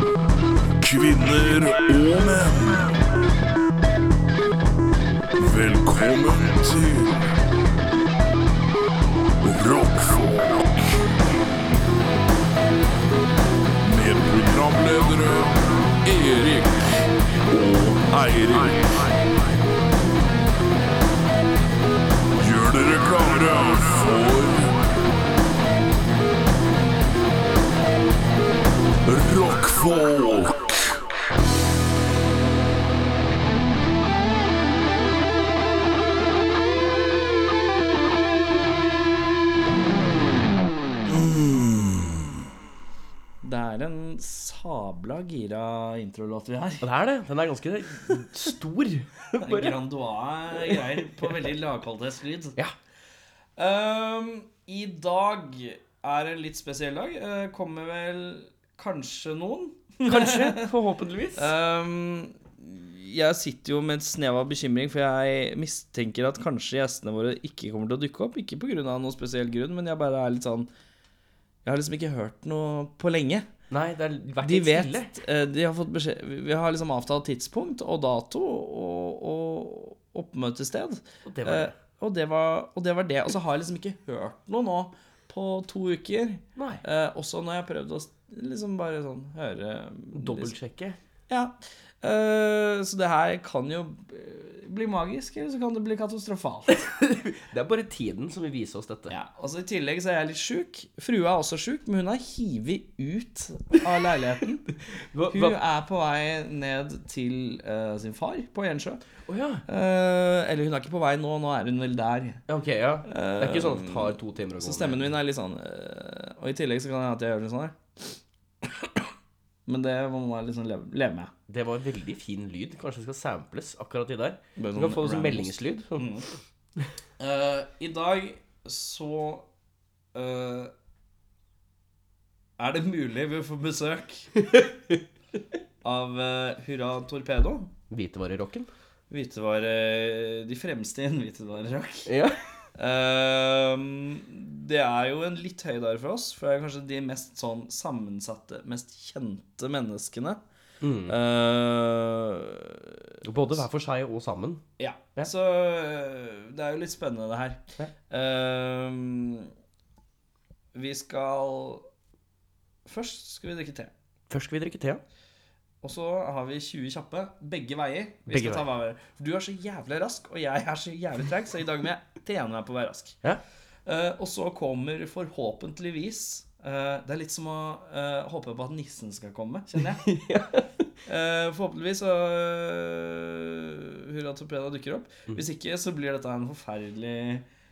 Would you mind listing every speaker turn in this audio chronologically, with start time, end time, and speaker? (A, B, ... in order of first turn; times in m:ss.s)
0:00.8-0:03.0 A
0:05.4-0:07.2 A
0:09.4-0:11.0 A
0:13.8-0:19.1 A
0:22.4-0:24.8 A
0:29.0-0:30.8 A
0:43.4-0:46.9 B
0:46.8-0:49.8 C
0:48.1-0:48.5 B
0:49.4-0:52.6 B
0:50.5-0:51.4 C
0:53.6-1:00.7 B
1:00.0-1:01.5 C
1:01.3-1:10.7 B
1:11.6-1:13.4 B
1:13.7-1:15.2 C
1:14.4-1:30.6 B
1:21.2-1:21.7 C
1:26.6-1:26.8 C
1:30.1-1:31.0 C
1:31.3-1:36.8 B
1:36.7-1:39.1 C
1:39.1-1:44.6 B
1:45.1-1:45.6 C
1:45.3-1:49.0 B
1:49.2-1:49.6 C
1:49.6-1:52.4 B
1:52.5-1:55.1 C
1:53.0-1:59.1 B
1:59.7-2:01.3 B
2:01.5-2:06.1 C
2:04.6-2:06.2 B
2:07.2-2:09.4 B
2:10.1-2:10.7 B
2:12.6-2:14.3 B
2:14.4-2:15.0 C
2:15.8-2:17.7 B
2:17.9-2:18.7 C
2:19.1-2:22.1 B
2:22.1-2:22.4 C
2:22.8-2:30.4 B
2:30.8-2:31.2 C
2:31.1-2:33.2 B
2:33.2-2:34.6 C
2:34.8-2:39.5 B
2:40.7-2:41.8 B
2:42.8-2:43.9 B
2:44.3-2:45.0 C
2:45.8-2:53.2 B
2:48.3-2:48.6 C
2:53.8-3:00.1 B
2:59.8-3:00.8 C
3:01.0-3:07.4 B